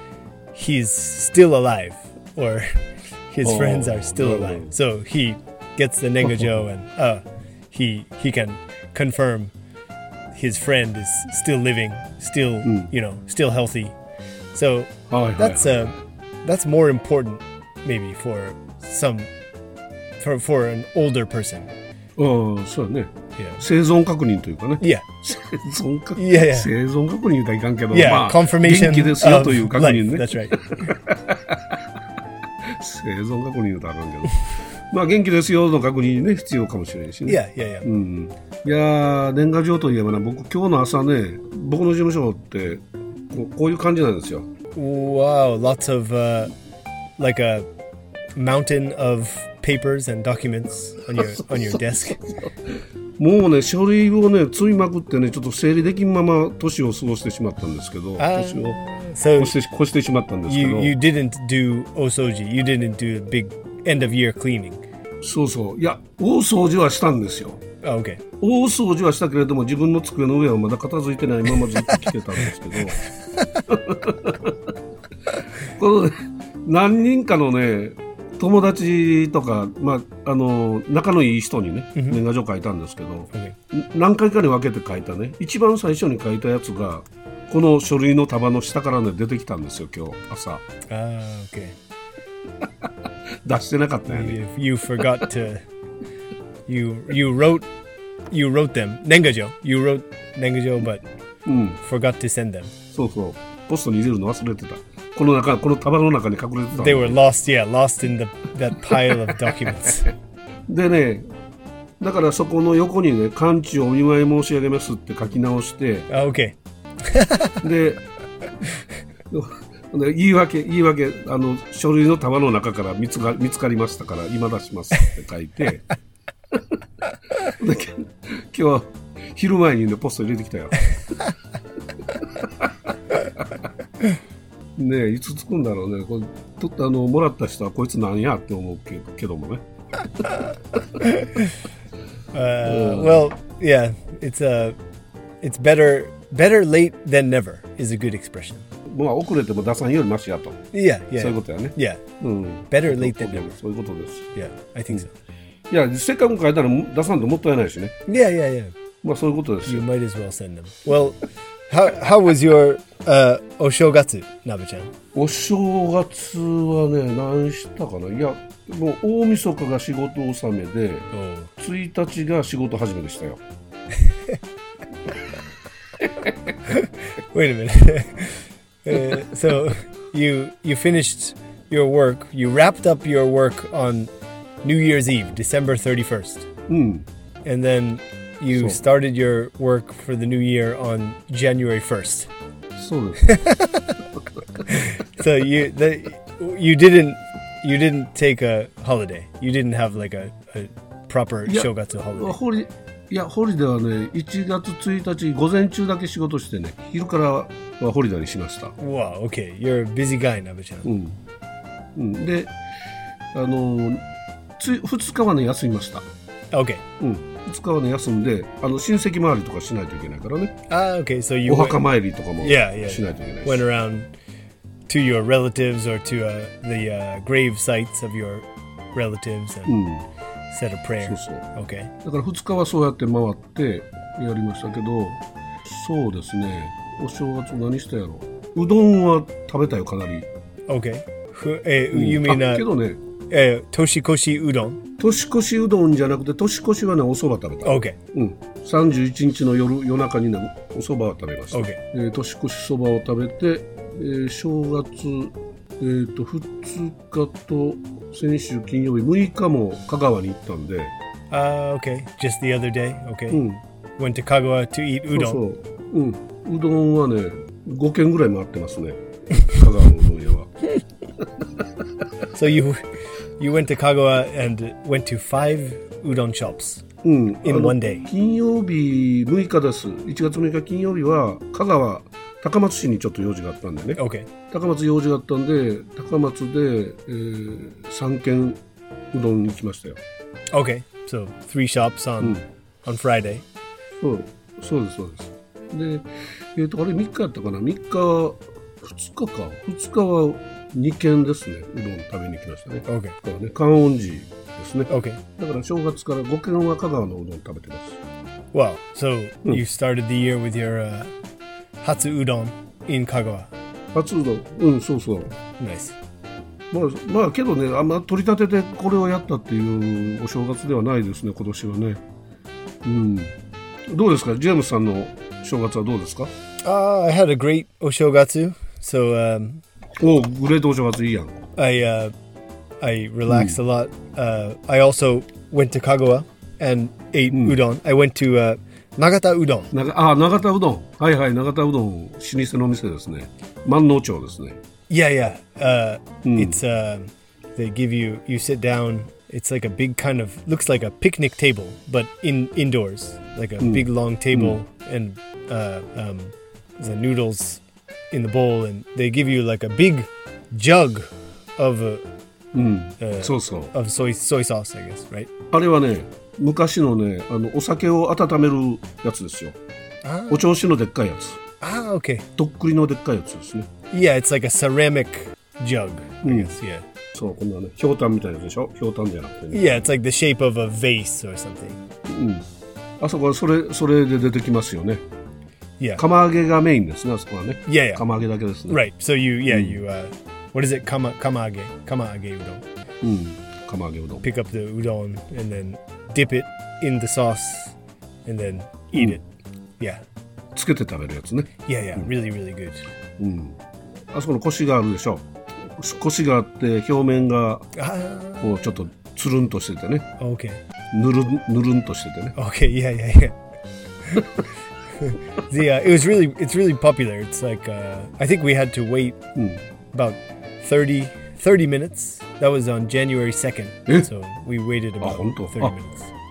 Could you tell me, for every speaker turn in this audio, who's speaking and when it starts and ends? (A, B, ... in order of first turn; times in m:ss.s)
0:00.5-0:09.5 A
0:03.4-0:04.8 B
0:06.2-0:06.6 B
0:10.3-0:14.0 A
0:12.6-0:12.9 B
0:14.5-0:19.3 A
0:15.1-0:16.0 B
0:20.2-0:21.7 A
0:22.2-0:31.8 B
0:23.4-0:23.6 A
0:24.8-0:25.0 A
0:26.2-0:26.7 A
0:27.9-0:30.9 A
0:32.6-0:44.5 B
0:37.3-0:37.9 A
0:44.8-0:46.5 A
0:47.2-0:47.7 A
0:48.4-0:52.2 A
0:51.2-0:52.5 B
0:53.2-0:58.8 B
0:58.2-0:59.6 A
0:59.4-1:01.0 B
1:00.5-1:04.8 A
1:05.2-1:07.6 B
1:07.8-1:08.2 A
1:08.4-1:13.0 B
1:13.7-1:14.6 B
1:15.6-1:30.6 B
1:22.0-1:22.2 A
1:30.9-1:31.8 A
1:32.6-1:32.9 B
1:33.4-1:34.4 B
1:34.1-1:35.6 A
1:36.7-1:37.7 A
1:38.3-1:41.0 A
1:41.5-1:41.8 B
1:41.8-1:42.7 A
1:42.9-1:47.2 B
1:46.8-1:50.1 A
1:50.7-1:51.3 B
1:52.0-1:56.1 B
1:56.1-1:57.6 A
1:57.6-1:58.0 B
1:59.3-2:05.8 B
2:06.5-2:06.8 B
2:07.4-2:10.9 B
2:12.2-2:12.7 B
2:14.8-2:19.6 B
2:21.0-2:21.6 A
2:22.3-2:24.8 A
2:22.6-2:23.3 B
2:25.4-2:28.6 A
2:28.9-2:34.3 B
2:30.7-2:32.0 A
2:32.7-2:33.5 A
2:34.4-2:35.1 A
2:35.7-2:38.0 B
2:38.1-2:38.8 A
2:39.0-2:39.9 B
2:39.7-2:44.9 A
2:45.1-2:53.4 B
2:51.1-2:51.5 A
2:56.7-3:04.1 A
3:04.6-3:06.5 A
3:06.7-3:07.1 B
3:07.4-3:12.3 A
3:08.5-3:08.8 B
3:12.8-3:13.2 B
3:13.2-3:14.0 A
3:14.6-3:22.4 A
3:21.5-3:28.8 B
3:28.8-3:30.9 A
3:30.8-3:31.2 B
3:32.0-3:32.5 B
3:33.3-3:34.0 B
3:34.6-3:36.1 B
3:36.5-3:36.8 A
3:37.0-3:40.6 B
3:40.7-3:41.8 A
3:41.5-3:43.6 B
3:42.4-3:44.1 A
3:44.9-3:49.8 A
3:49.7-3:50.0 B
3:50.5-3:51.9 A
3:51.0-3:51.5 B
3:52.0-4:00.3 B
4:00.7-4:02.7 A
4:01.9-4:03.0 B
4:03.3-4:04.8 A
4:05.0-4:21.0 B
4:07.6-4:08.0 A
4:11.5-4:11.8 A
4:21.3-4:23.4 A
4:23.3-4:23.6 B
4:24.0-4:25.4 A
4:25.1-4:30.5 B
4:32.3-4:32.8 A
4:33.4-4:36.8 A
4:37.0-4:48.6 B
4:37.4-4:38.1 A
4:44.0-4:44.3 A
4:49.1-4:50.0 B
4:50.5-4:53.4 A
4:54.0-5:08.0 B
5:02.9-5:03.2 A
5:04.9-5:05.2 A
5:08.5-5:11.1 A
5:11.8-5:13.5 A
5:13.9-5:15.3 B
5:15.6-5:16.0 A
5:16.7-5:22.0 B
5:22.8-5:23.4 B
5:23.9-5:26.3 B
5:26.6-5:29.6 A
5:30.0-5:31.4 B
5:31.6-5:32.1 A
5:32.8-5:39.7 A
5:33.3-5:33.6 B
5:37.3-5:37.6 B
5:39.7-5:44.6 B
5:44.9-6:02.0 A
5:46.2-5:46.6 B
5:53.6-5:54.6 B
6:02.5-6:03.7 B
6:03.0-6:05.3 A
6:05.5-6:09.6 B
6:10.0-6:10.5 A
6:10.3-6:11.4 B
6:11.6-6:12.3 A
6:12.4-6:13.7 B
6:13.9-6:16.9 A
6:16.2-6:16.5 B
6:17.1-6:19.9 B
6:19.5-6:21.8 A
6:22.1-6:22.4 B
6:23.0-6:25.0 B
6:26.0-6:28.8 B
6:27.7-6:28.0 A
6:28.7-6:32.6 A
6:29.5-6:29.8 B
6:33.0-6:34.2 B
6:34.2-6:37.8 A
6:38.3-6:39.2 A
6:40.5-6:42.1 B
6:41.7-6:42.9 A
6:43.2-6:43.6 B
6:44.1-6:47.7 B
6:47.8-6:48.7 A
6:48.4-6:50.1 B
6:50.2-6:50.6 A
6:50.9-6:52.4 B
6:52.4-6:53.4 A
6:54.0-6:54.3 A
6:55.0-6:59.2 A
6:59.4-6:59.6 B
6:59.9-7:06.1 A
7:05.0-7:05.8 B